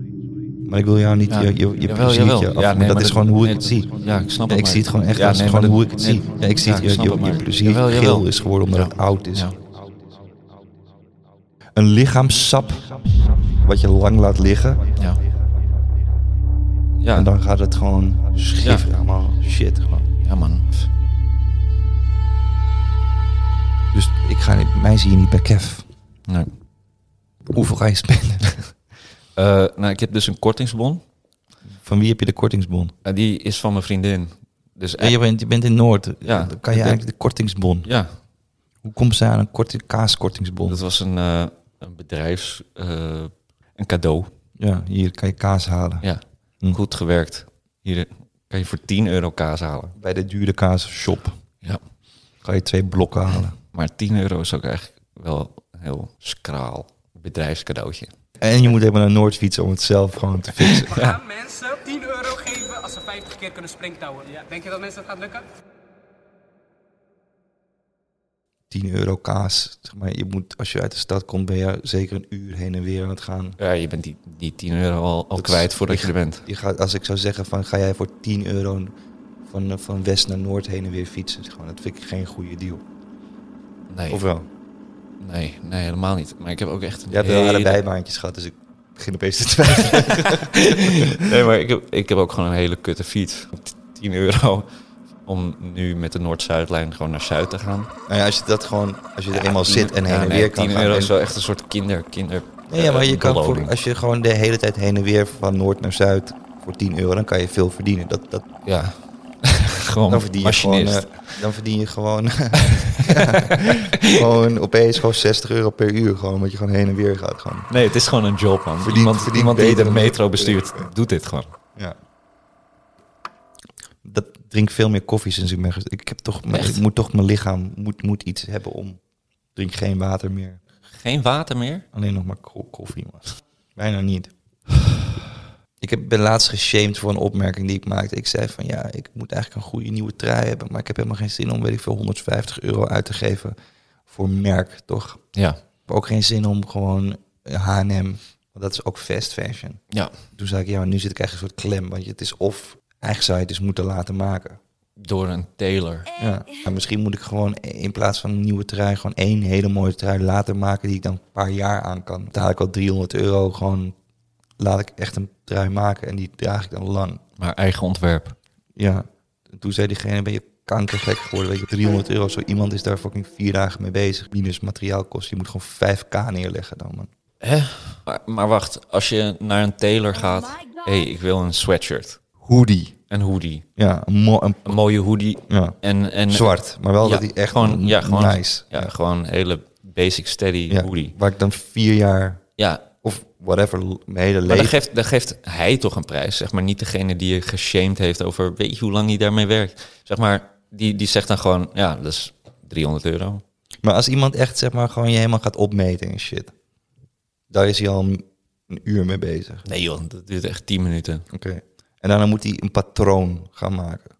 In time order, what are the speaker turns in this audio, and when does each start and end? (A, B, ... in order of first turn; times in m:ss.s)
0:00.6-0:03.9 A
0:01.3-0:09.5 B
0:04.5-0:09.5 A
0:11.8-0:12.9 A
0:13.6-0:14.9 A
0:17.0-0:17.3 B
0:17.1-0:20.0 A
0:20.2-0:20.9 B
0:23.9-0:25.9 A
0:27.5-0:28.7 A
0:29.3-0:31.0 B
0:31.8-0:32.9 A
0:33.0-0:35.2 B
0:35.0-0:37.9 A
0:36.2-0:37.3 B
0:37.8-0:38.1 B
0:38.8-0:40.8 A
0:40.6-0:44.3 B
0:44.6-0:46.1 A
0:46.0-0:49.9 B
0:50.0-0:51.4 A
0:52.4-0:53.6 A
0:53.7-0:58.1 B
0:58.4-1:01.0 A
1:00.6-1:01.2 B
1:01.2-1:05.4 C
1:08.7-1:13.6 A
1:13.6-1:16.4 B
1:15.4-1:18.9 A
1:19.4-1:22.8 A
1:23.9-1:24.2 B
1:24.1-1:24.5 A
1:25.2-1:27.8 B
1:27.1-1:30.6 A
1:29.8-1:34.7 B
1:35.2-1:37.9 B
1:38.1-1:41.1 A
1:39.3-1:43.7 B
1:42.7-1:48.4 A
1:48.6-1:51.4 B
1:50.1-1:57.7 A
1:57.7-2:01.5 B
1:58.8-2:00.9 A
2:04.0-2:09.0 A
2:06.5-2:06.8 B
2:09.5-2:10.6 A
2:10.9-2:11.8 B
2:11.9-2:14.3 A
2:15.8-2:23.5 A
2:24.1-2:25.2 A
2:25.8-2:29.8 A
2:30.3-2:34.6 A
2:35.0-2:36.1 B
2:36.2-2:43.9 A
2:44.6-2:47.2 A
2:47.4-2:48.4 B
2:48.8-2:57.1 A
2:57.4-3:02.2 B
3:02.4-3:02.9 A
3:03.1-3:03.6 B
3:03.8-3:04.8 A
3:04.6-3:11.1 B
3:05.5-3:08.9 A
3:10.7-3:12.4 A
3:12.6-3:12.8 B
3:13.0-3:14.8 A
3:14.5-3:23.4 B
3:23.8-3:26.5 A
3:27.5-3:29.6 A
3:29.6-3:31.2 B
3:31.3-3:34.1 A